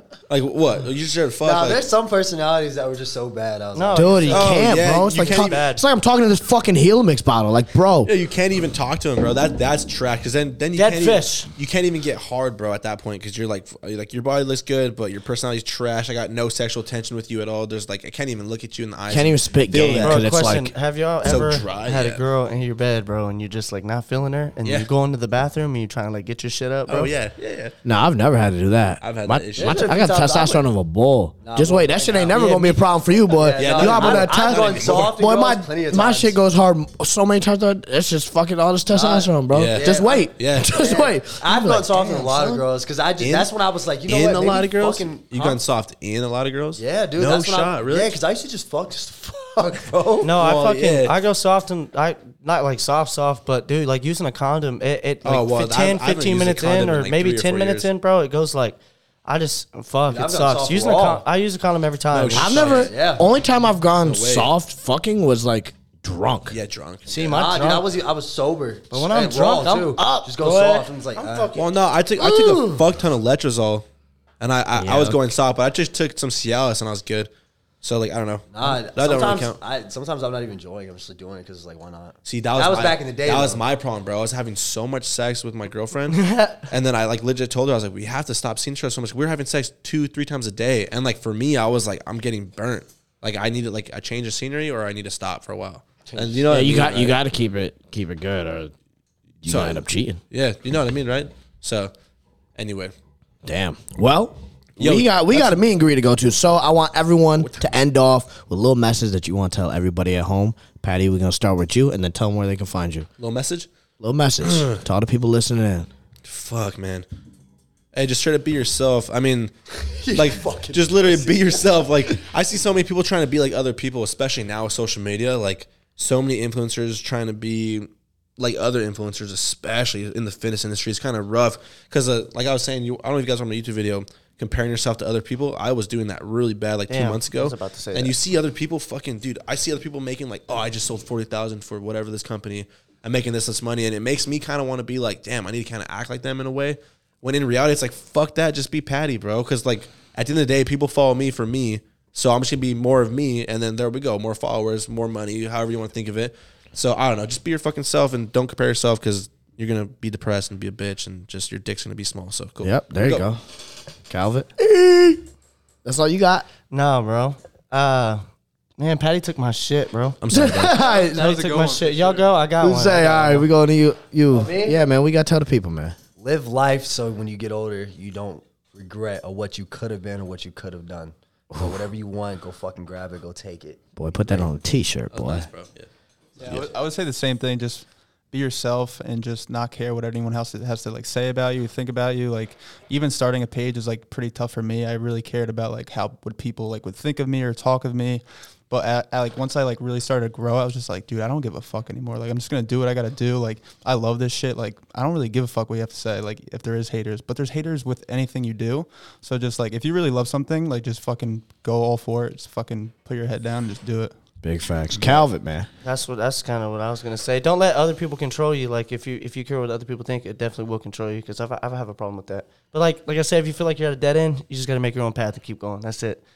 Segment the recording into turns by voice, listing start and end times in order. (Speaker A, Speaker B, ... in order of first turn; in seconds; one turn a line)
Speaker A: 0.3-1.8
Speaker B: 1.4-4.4
Speaker C: 3.7-5.8
Speaker D: 3.9-8.1
Speaker A: 4.3-5.6
Speaker A: 8.0-20.2
Speaker C: 10.7-11.5
Speaker D: 19.1-20.7
Speaker C: 20.0-27.1
Speaker A: 21.2-22.2
Speaker A: 26.9-27.7
Speaker D: 27.8-42.6
Speaker A: 29.0-29.9
Speaker B: 29.6-30.6
Speaker B: 31.4-32.5
Speaker C: 32.3-32.8
Speaker B: 33.3-36.4
Speaker A: 33.6-35.1
Speaker B: 38.9-45.6
Speaker A: 39.5-40.8
Speaker A: 43.2-43.5
Speaker A: 44.0-48.2
Speaker B: 46.8-50.3
Speaker C: 50.2-62.6
Speaker A: 50.3-51.1
Speaker A: 55.2-57.9
Speaker B: 60.1-61.2
Speaker A: 62.1-62.9
Speaker D: 62.3-66.5
Speaker B: 62.6-63.3
Speaker A: 64.0-64.5
Speaker A: 66.5-67.1
Speaker C: 67.1-67.9
Speaker B: 67.2-71.5
Speaker C: 68.9-71.7
Speaker A: 71.5-73.8
Speaker D: 72.2-72.8
Speaker A: 74.4-77.3
Speaker D: 74.8-75.2
Speaker A: 77.8-79.6
Speaker B: 78.5-83.6
Speaker A: 82.2-97.2
Speaker C: 86.1-86.7
Speaker B: 96.1-96.7
Speaker D: 96.5-98.7
Speaker D: 99.4-100.2
Speaker A: 99.5-101.9
Speaker A: 102.5-102.9
Speaker D: 103.4-113.1
Speaker A: 104.8-105.6
Speaker A: 107.4-107.7
Speaker A: 113.2-113.7
Speaker D: 114.0-115.9
Speaker A: 114.4-114.8
Speaker A: 116.2-117.0
Speaker A: 117.9-119.5
Speaker B: 120.0-121.6
Speaker A: 120.1-163.3
Speaker C: 136.9-138.1
Speaker D: 162.6-163.4
Speaker D: 164.1-165.2
Speaker D: 165.8-166.5
Speaker C: 166.7-168.2
Speaker C: 168.8-170.2
Speaker A: 170.2-170.8
Speaker D: 170.3-171.2
Speaker E: 170.7-172.3
Speaker C: 170.9-173.5
Speaker D: 172.6-175.9
Speaker B: 174.3-174.8
Speaker B: 176.2-183.8
Speaker D: 181.5-181.8
Speaker D: 183.9-185.5
Speaker A: 185.1-186.7
Speaker E: 186.4-214.1
Speaker D: 214.4-215.7
Speaker C: 215.8-226.2